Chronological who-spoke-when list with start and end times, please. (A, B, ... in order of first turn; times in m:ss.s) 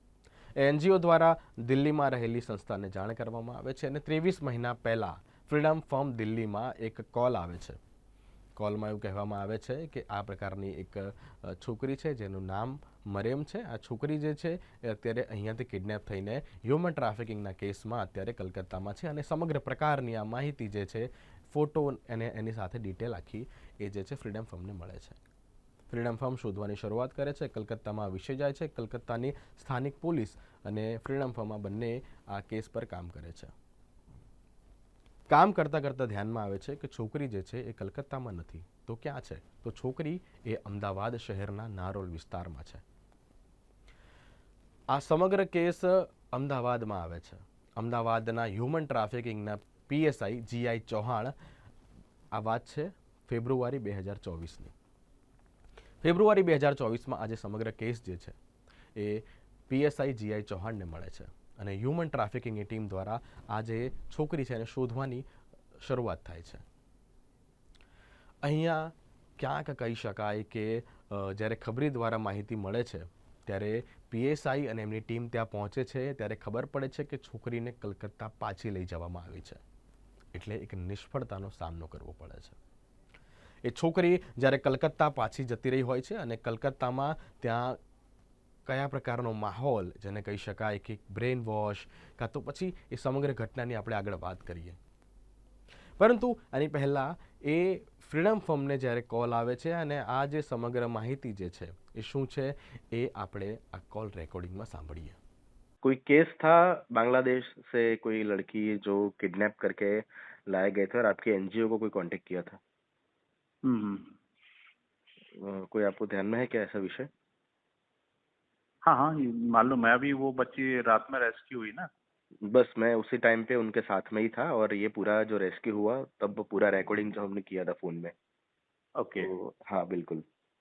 0:00.6-0:07.8 A
0:08.6-0:25.2 A
0:25.9-0:33.5 A
0:35.3-0:42.8 A
0:44.9-0:51.3 A
0:52.3-0:54.7 A
0:56.0-0:58.4 A
0:59.0-1:05.2 A
1:05.8-1:06.6 A
1:08.4-1:19.6 A
1:20.3-1:22.6 A
1:23.6-1:27.8 A
1:28.7-1:34.8 A
1:36.0-1:45.2 A
1:45.8-1:52.6 B
1:53.6-1:54.1 C
1:55.3-1:57.1 B
1:58.8-2:01.9 C
2:02.4-2:08.1 B
2:09.0-2:09.3 C
2:09.2-2:10.2 B